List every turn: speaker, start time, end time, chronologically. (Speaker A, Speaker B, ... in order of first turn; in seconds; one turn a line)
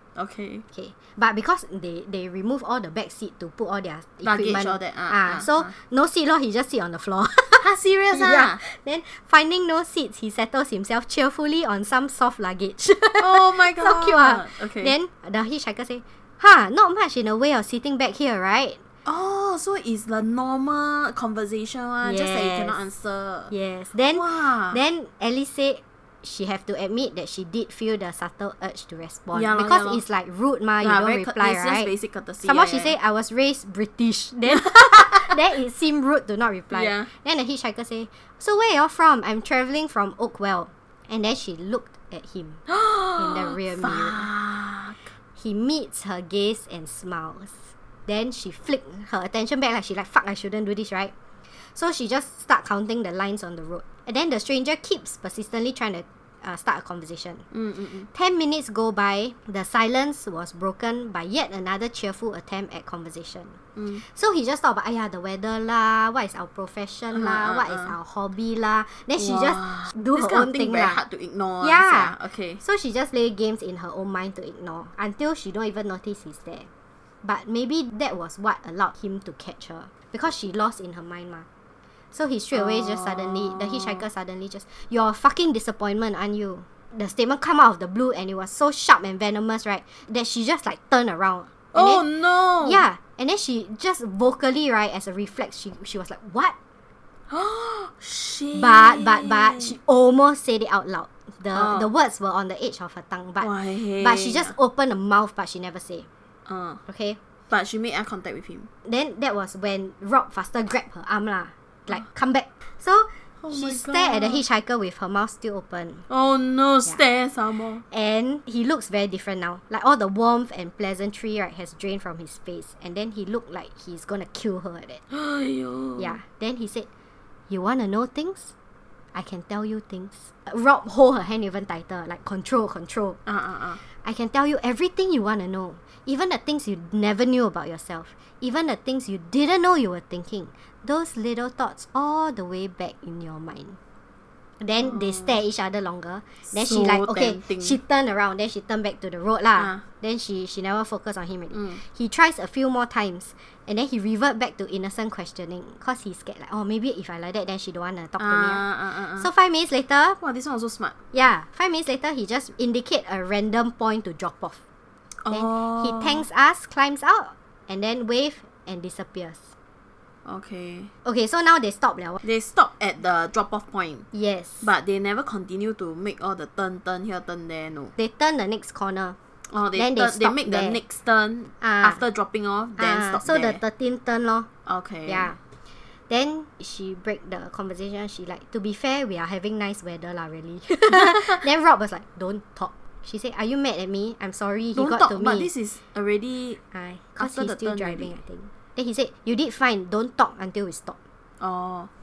Speaker A: 0.1-0.6
Speaker B: 0.7-18.8
Speaker A: 4.2-5.7
Speaker A: 7.6-8.6
Speaker A: 13.2-14.9
Speaker A: 19.1-23.5
Speaker B: 22.0-22.8
Speaker B: 23.5-31.9
Speaker A: 24.1-24.8
Speaker A: 29.3-30.0
Speaker A: 30.8-33.0
Speaker B: 32.4-42.6
Speaker A: 34.5-35.4
Speaker A: 36.7-37.1
Speaker A: 42.7-45.1
Speaker B: 43.2-44.3
Speaker B: 45.4-57.5
Speaker A: 57.5-58.1
Speaker B: 58.1-71.0
Speaker A: 63.8-64.0
Speaker A: 67.1-68.0
Speaker A: 69.2-72.6
Speaker B: 71.6-76.7
Speaker B: 77.2-81.5
Speaker B: 82.1-92.1
Speaker A: 82.5-84.0
Speaker A: 91.7-92.8
Speaker B: 92.6-96.5
Speaker A: 97.3-99.8
Speaker B: 98.5-106.1
Speaker A: 101.5-101.9
Speaker A: 103.4-104.5
Speaker A: 106.5-106.8
Speaker B: 106.9-107.2
Speaker A: 107.5-108.7
Speaker B: 108.8-116.1
Speaker A: 113.4-114.4
Speaker A: 116.1-117.8
Speaker B: 117.9-125.0
Speaker A: 125.1-126.2
Speaker B: 126.0-126.9
Speaker B: 127.5-128.5
Speaker B: 129.1-133.2
Speaker A: 133.3-133.8
Speaker B: 133.8-143.8
Speaker B: 144.6-160.2
Speaker A: 144.8-145.4
Speaker A: 146.5-147.8
Speaker A: 149.6-149.8
Speaker A: 151.5-151.8
Speaker A: 158.2-159.3
Speaker A: 160.2-161.0
Speaker B: 161.1-164.6
Speaker A: 165.2-166.2
Speaker B: 165.3-169.5
Speaker A: 170.2-170.9
Speaker B: 171.1-172.2
Speaker A: 172.2-174.1
Speaker B: 174.1-174.7
Speaker A: 174.6-177.9
Speaker B: 178.0-179.2
Speaker A: 179.5-183.6
Speaker B: 179.8-180.8
Speaker B: 181.6-182.0
Speaker B: 182.8-184.5
Speaker A: 184.7-185.3
Speaker B: 185.1-185.4
Speaker B: 186.1-195.5
Speaker A: 190.9-191.4
Speaker A: 194.8-196.6
Speaker B: 196.7-201.0
Speaker A: 197.2-198.1
Speaker A: 201.4-201.9